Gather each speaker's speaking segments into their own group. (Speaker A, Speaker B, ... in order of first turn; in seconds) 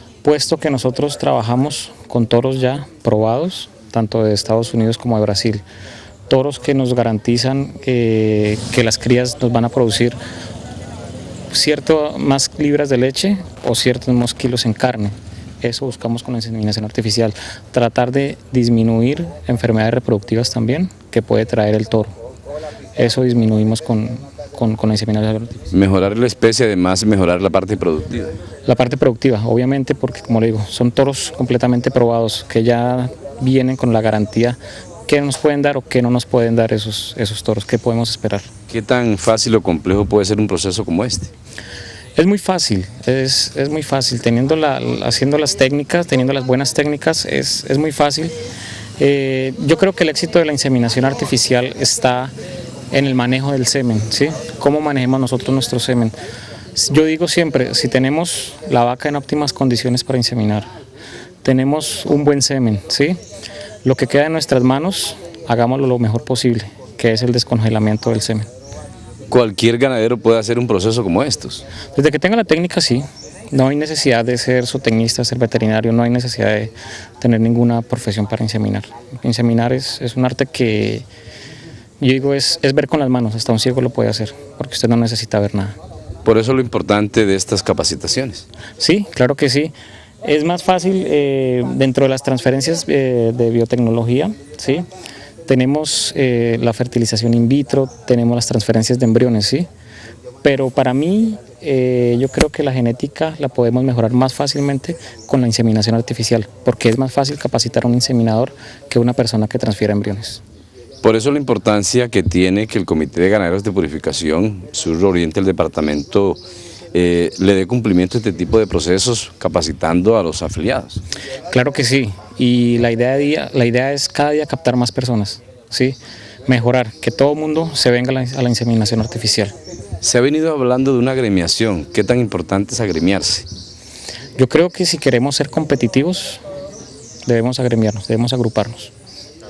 Speaker A: 0.2-5.6, 6.3-10.2, 11.5-22.1, 23.0-25.7, 28.7-38.5, 42.2-48.3, 49.0-52.3, 52.9-56.1, 56.8-60.7, 61.4-63.2, 63.8-68.5, 71.9-81.0, 82.0-85.8, 88.8-89.7, 90.2-94.8, 95.5-99.7, 100.4-110.4, 121.5-129.5, 134.4-136.4, 137.2-138.9
Speaker B: 25.7-28.3, 38.7-41.3, 69.3-71.6, 86.2-88.5, 111.0-116.4, 116.9-121.0, 130.0-133.5